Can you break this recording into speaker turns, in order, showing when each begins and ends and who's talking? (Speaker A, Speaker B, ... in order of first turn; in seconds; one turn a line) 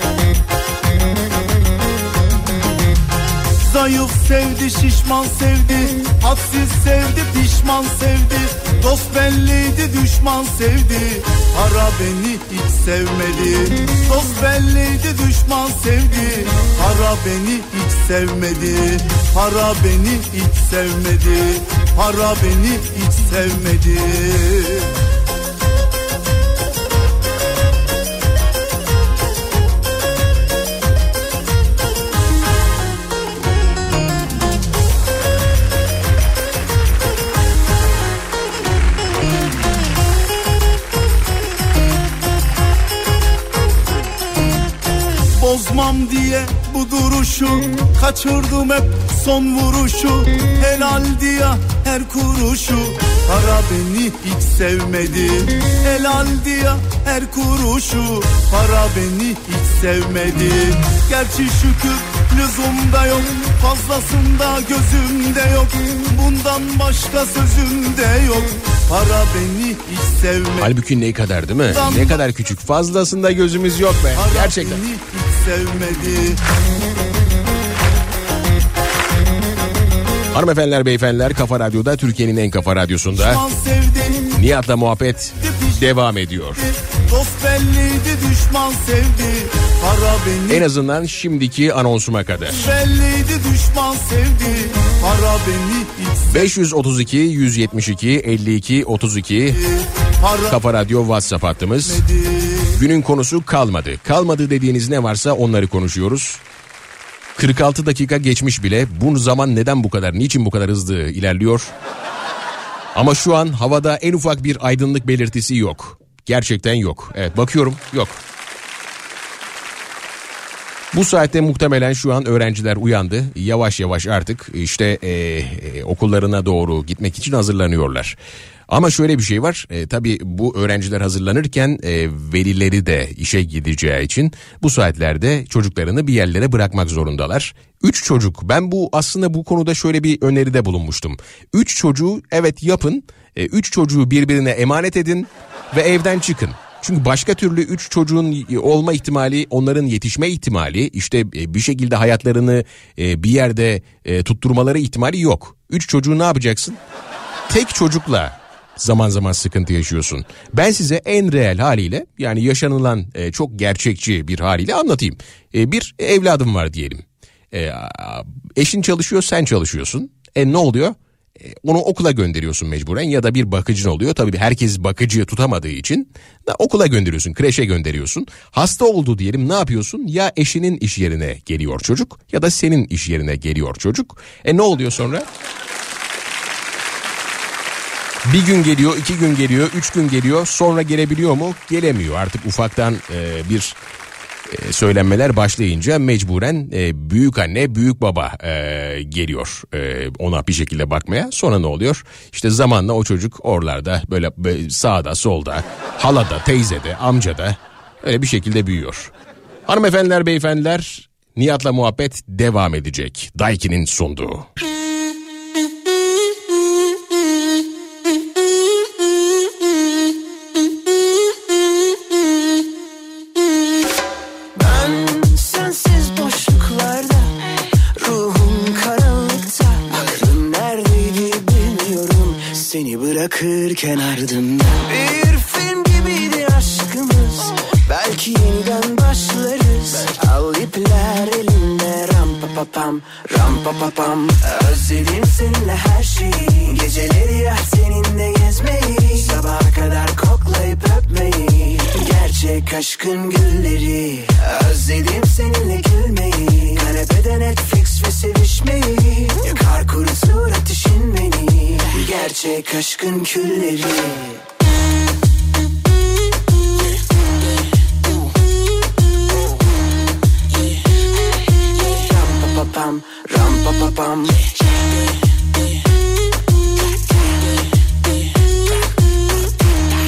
Speaker A: 3.6-24.7
Speaker A: 45.4-70.7
Speaker B: 70.6-74.8
Speaker A: 71.7-72.0
Speaker A: 74.2-76.3
Speaker B: 80.3-83.4
Speaker A: 83.3-84.1
Speaker B: 84.3-86.6
Speaker A: 87.1-90.6
Speaker B: 90.5-92.7
Speaker A: 92.7-96.2
Speaker B: 96.3-99.6
Speaker B: 100.5-102.0
Speaker A: 101.9-102.1
Speaker B: 102.7-106.4
Speaker B: 107.3-111.7
Speaker B: 112.9-118.2
Speaker B: 120.9-128.2
Speaker B: 128.7-156.8
Speaker B: 157.5-185.2
Speaker B: 188.2-193.8
Speaker B: 194.5-209.1
Speaker B: 209.7-214.5
Speaker C: 225.1-227.0
Speaker C: 228.2-229.6
Speaker C: 230.7-237.2
Speaker C: 238.0-240.4
Speaker C: 241.0-241.4
Speaker C: 242.2-244.3
Speaker C: 244.8-254.2
Speaker C: 254.8-263.9
Speaker C: 273.4-273.8